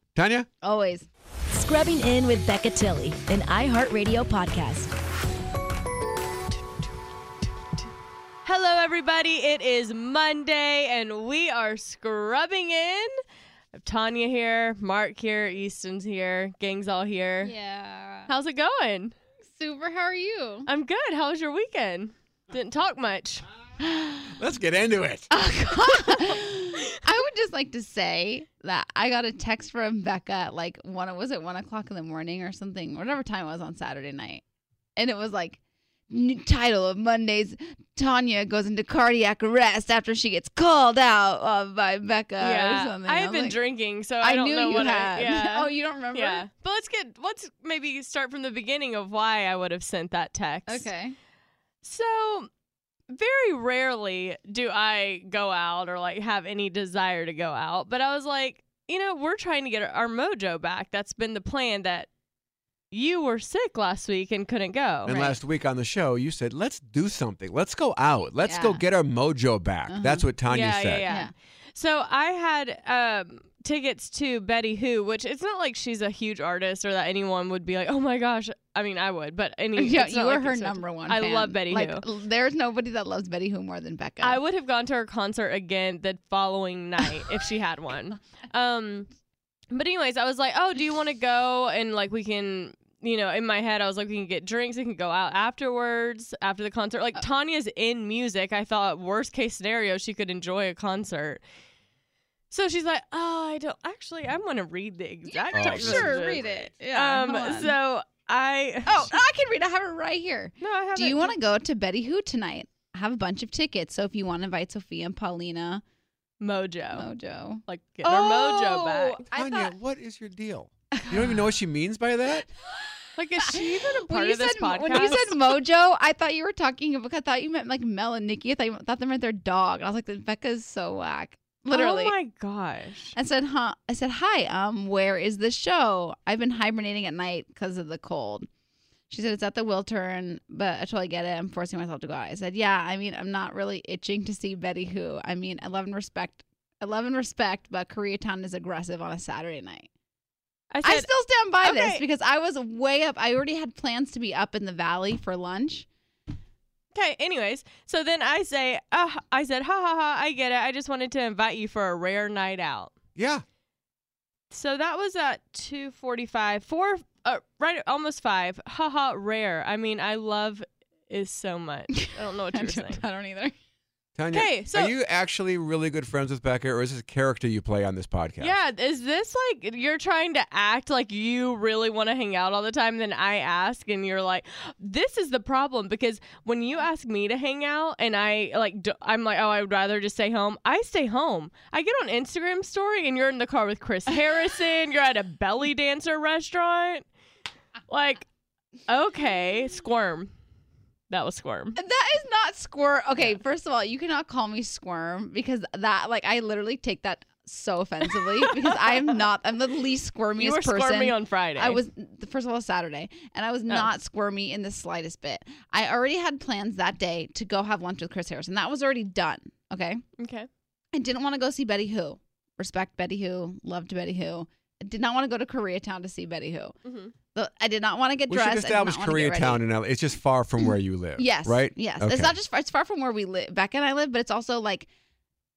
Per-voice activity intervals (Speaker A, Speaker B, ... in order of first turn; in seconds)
Speaker A: 0.1-0.5, 24.4-25.3, 65.0-71.1, 105.5-106.5, 119.3-122.5, 163.2-163.4, 174.2-178.6, 228.3-232.4
Speaker B: 0.6-1.1, 17.4-18.3, 19.4-20.7, 23.8-24.4, 25.3-34.4, 35.0-35.6, 36.1-43.6, 44.2-46.5, 50.7-51.2, 65.1-65.4, 68.4-68.8, 69.9-70.3, 71.1-71.3, 79.8-84.4, 105.3-107.8, 108.9-115.8, 116.9-119.7, 121.0-121.5, 123.4-132.2, 133.2-138.5, 139.1-149.9, 150.8-155.9, 172.0-173.5, 201.8-220.0, 220.9-226.8, 227.3-229.6, 230.6-234.9
Speaker C: 1.5-4.9
Speaker D: 8.4-13.1, 13.8-17.5, 18.3-19.1, 20.7-23.4, 42.4-50.9, 51.8-52.5, 53.1-62.1, 62.9-65.1, 70.5-82.0, 84.2-89.1, 89.7-101.4, 102.5-109.1, 110.6-111.3, 116.4-117.1, 117.7-119.2, 123.2-125.5, 131.7-133.2, 150.7-151.1, 151.6-152.0, 156.9-162.9, 164.5-173.0, 174.3-174.9, 178.4-197.1, 197.9-198.2, 198.9-200.3, 201.1-201.8, 208.6-208.9, 210.4-211.8, 220.2-220.5, 226.8-227.1